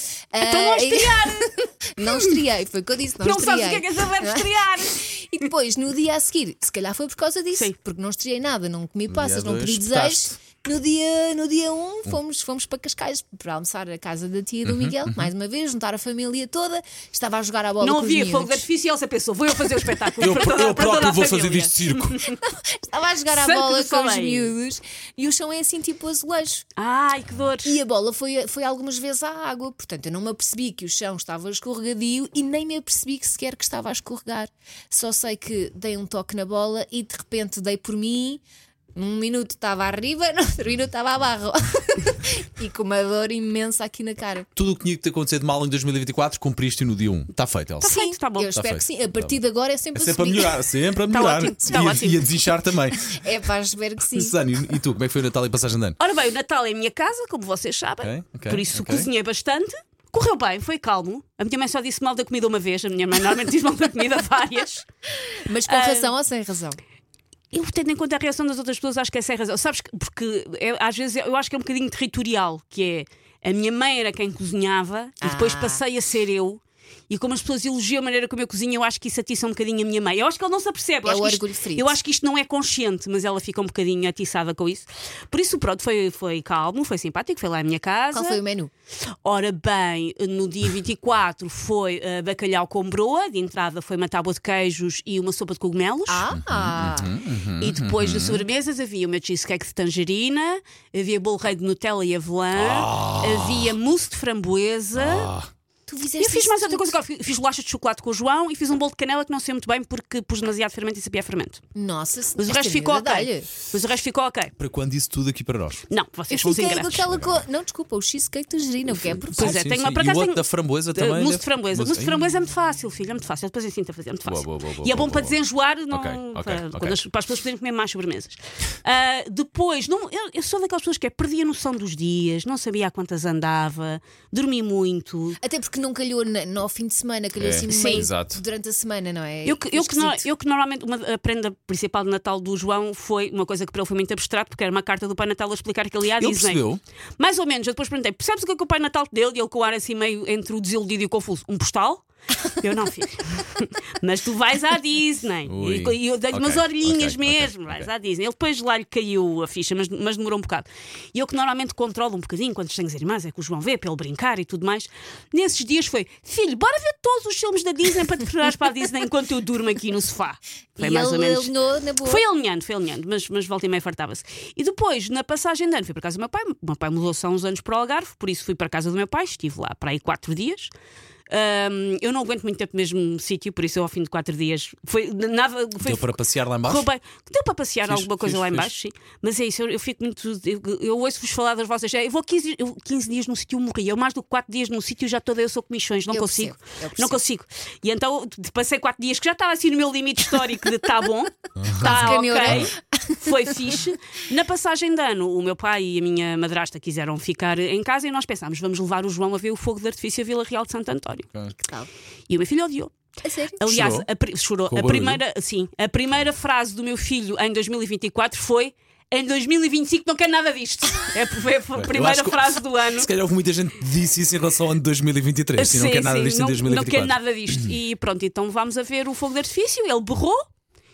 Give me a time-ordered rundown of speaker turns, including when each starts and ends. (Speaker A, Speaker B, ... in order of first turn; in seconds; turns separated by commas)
Speaker A: 0.3-18.6, Speaker B: 0.4-2.3, Speaker B: 3.2-5.0, Speaker C: 9.1-10.3, Speaker C: 14.6-15.3, Speaker B: 17.8-22.3, Speaker C: 20.2-22.2, Speaker A: 22.3-26.6, Speaker B: 23.3-24.5, Speaker B: 26.8-27.7, Speaker A: 27.6-38.4, Speaker A: 38.9-44.5, Speaker C: 44.5-47.9, Speaker B: 47.8-48.5, Speaker A: 47.9-50.7, Speaker C: 48.5-49.4, Speaker C: 49.9-53.2, Speaker B: 51.1-52.2, Speaker A: 53.1-54.4, Speaker C: 54.1-56.0, Speaker B: 56.0-64.8, Speaker C: 58.0-59.1, Speaker A: 65.3-66.8, Speaker B: 65.6-66.1, Speaker B: 67.5-88.4, Speaker A: 75.2-75.8, Speaker A: 81.0-82.0, Speaker A: 88.1-88.7, Speaker B: 89.2-96.3, Speaker A: 96.1-97.1, Speaker C: 96.3-98.4, Speaker B: 97.6-105.3, Speaker C: 102.5-103.8, Speaker C: 104.9-105.5, Speaker A: 105.9-107.0, Speaker B: 106.2-111.6, Speaker A: 111.7-113.5, Speaker B: 112.4-114.5, Speaker C: 114.6-115.8, Speaker B: 115.9-117.1, Speaker A: 116.3-119.5, Speaker C: 117.1-117.4, Speaker C: 119.3-122.3, Speaker B: 119.3-135.4, Speaker C: 124.2-125.4, Speaker C: 125.9-127.0, Speaker A: 135.4-140.3, Speaker C: 137.3-138.4, Speaker B: 137.7-138.1, Speaker B: 139.4-146.6, Speaker C: 146.2-146.8, Speaker B: 147.2-180.7, Speaker C: 155.5-157.9, Speaker A: 170.8-172.2, Speaker B: 181.3-211.3, Speaker C: 185.8-186.9, Speaker C: 187.8-188.7, Speaker A: 196.1-197.2, Speaker C: 201.6-202.7, Speaker A: 201.8-203.8, Speaker A: 211.6-211.9, Speaker B: 212.3-212.9, Speaker A: 213.2-213.6, Speaker B: 213.6-223.1, Speaker C: 213.7-214.1, Speaker C: 214.7-215.2, Speaker C: 221.7-227.7, Speaker B: 225.6-230.5